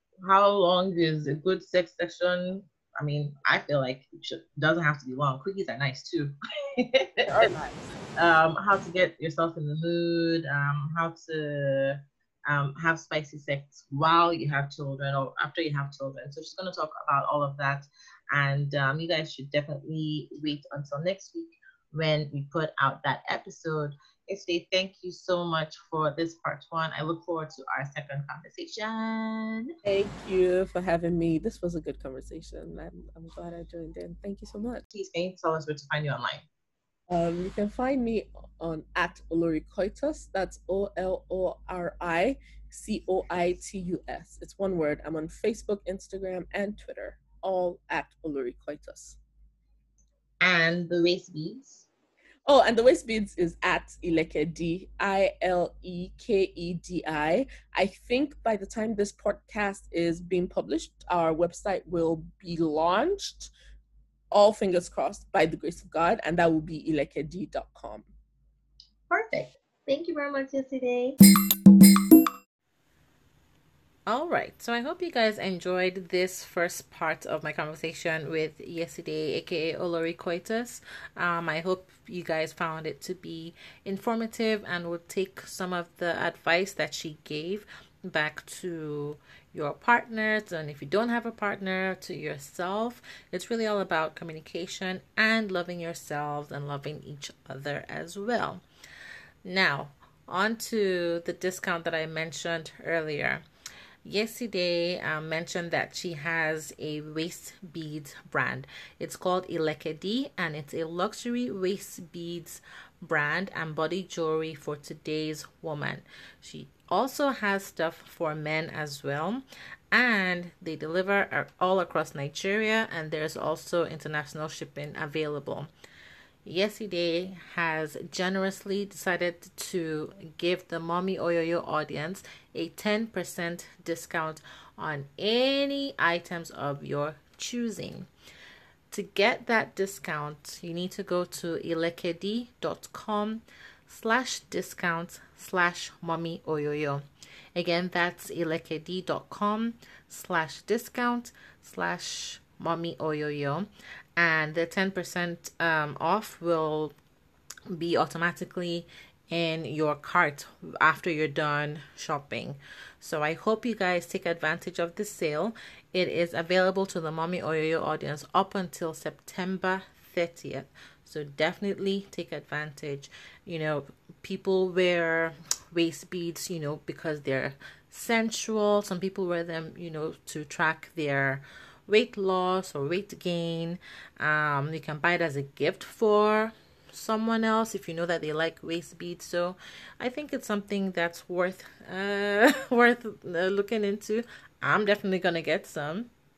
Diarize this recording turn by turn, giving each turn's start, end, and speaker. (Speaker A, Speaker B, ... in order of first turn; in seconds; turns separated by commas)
Speaker A: 0.2-7.5, Speaker B: 7.3-8.0, Speaker A: 8.2-29.7, Speaker B: 29.8-34.8, Speaker A: 34.9-36.4, Speaker B: 37.1-49.2, Speaker A: 50.4-51.9, Speaker B: 52.5-63.5, Speaker B: 64.3-68.1, Speaker A: 69.1-71.2, Speaker C: 74.1-98.6, Speaker C: 99.4-103.4, Speaker C: 104.0-125.7, Speaker C: 126.5-138.1, Speaker C: 138.9-147.0, Speaker C: 147.5-156.9, Speaker C: 157.7-196.1